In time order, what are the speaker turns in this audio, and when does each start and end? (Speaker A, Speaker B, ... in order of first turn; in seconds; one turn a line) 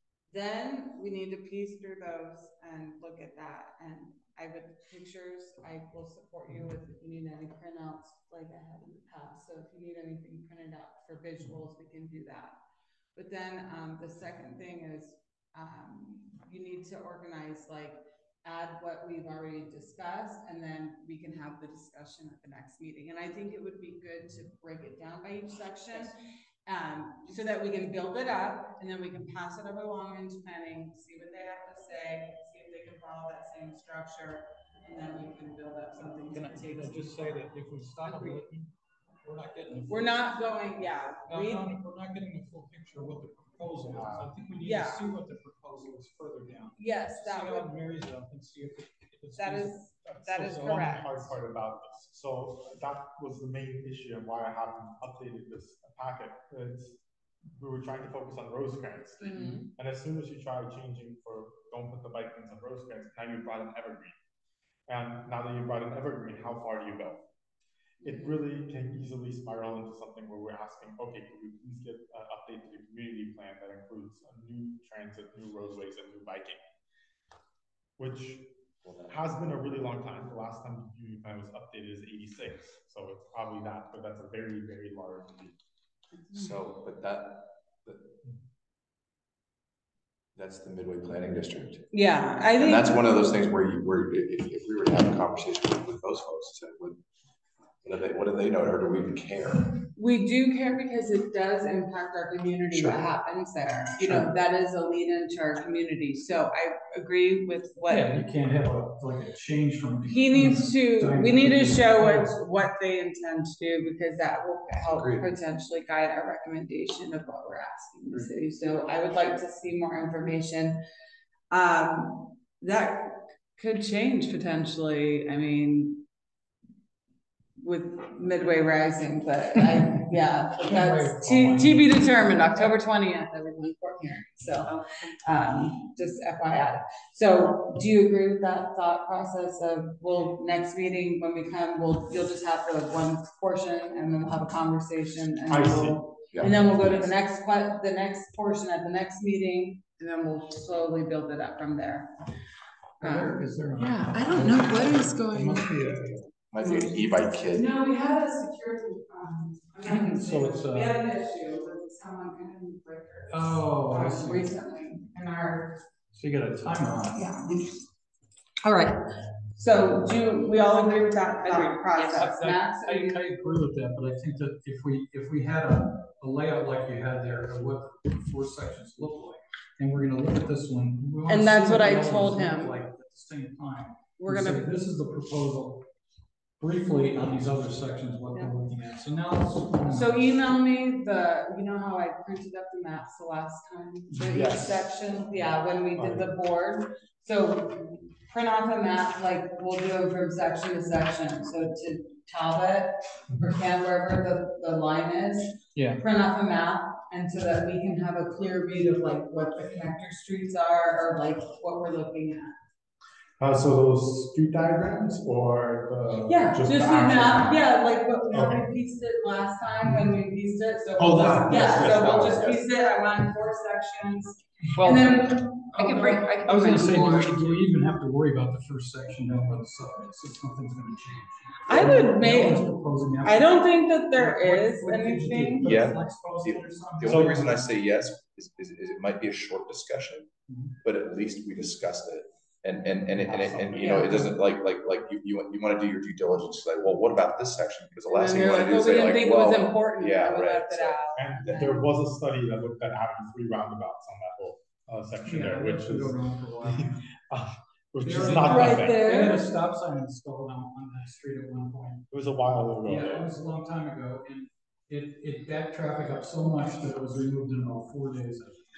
Speaker A: 0.3-12.5
Speaker A: 13.2-26.1
Speaker A: 26.6-37.4
Speaker B: 36.1-38.7
Speaker A: 38.0-38.4
Speaker B: 39.2-40.3
Speaker A: 39.9-41.7
Speaker B: 41.3-49.9
Speaker C: 43.9-44.3
Speaker A: 44.6-45.0
Speaker A: 46.8-47.7
Speaker A: 49.4-51.2
Speaker C: 50.0-57.0
Speaker B: 50.5-51.0
Speaker C: 57.5-64.2
Speaker A: 59.2-59.6
Speaker C: 64.9-67.2
Speaker A: 68.0-68.3
Speaker C: 68.0-76.7
Speaker C: 78.0-78.4
Speaker D: 78.8-79.3
Speaker C: 79.1-85.5
Speaker D: 86.3-88.2
Speaker D: 90.3-91.9
Speaker A: 91.9-93.0
Speaker D: 92.5-97.0
Speaker D: 97.8-99.8
Speaker A: 100.0-108.2
Speaker D: 102.7-103.0
Speaker D: 104.0-104.3
Speaker B: 107.9-112.3
Speaker A: 110.0-120.8
Speaker D: 114.8-115.3
Speaker A: 121.5-126.0
Speaker A: 127.6-152.1
Speaker B: 130.6-132.3
Speaker E: 134.6-135.2
Speaker C: 145.5-146.0
Speaker D: 146.3-147.1
Speaker A: 153.0-155.8
Speaker B: 153.0-156.2
Speaker D: 156.4-157.7
Speaker A: 156.6-165.8
Speaker B: 159.8-161.0
Speaker B: 163.3-164.5
Speaker B: 166.1-167.4
Speaker A: 167.1-167.8
Speaker A: 168.6-169.0
Speaker A: 169.5-173.2
Speaker B: 171.8-185.8
Speaker A: 181.3-182.7
Speaker A: 184.2-184.6
Speaker B: 186.6-190.4
Speaker A: 189.9-212.5
Speaker C: 194.2-194.9
Speaker C: 195.9-196.3
Speaker B: 205.7-206.0
Speaker C: 213.4-217.6
Speaker A: 216.2-226.2
Speaker C: 218.3-218.7
Speaker C: 219.8-220.1
Speaker C: 221.0-222.6
Speaker B: 224.8-225.2
Speaker E: 225.8-227.5
Speaker B: 226.4-237.6
Speaker A: 231.7-232.7
Speaker A: 233.2-235.7
Speaker D: 235.6-240.3
Speaker C: 237.1-237.4
Speaker B: 240.5-240.8
Speaker D: 240.8-251.0
Speaker C: 243.5-244.1
Speaker A: 243.8-244.3
Speaker A: 248.1-251.9
Speaker C: 251.2-259.3
Speaker B: 255.2-257.0
Speaker B: 258.0-262.1
Speaker A: 258.3-259.4
Speaker C: 262.1-263.3
Speaker B: 262.8-268.6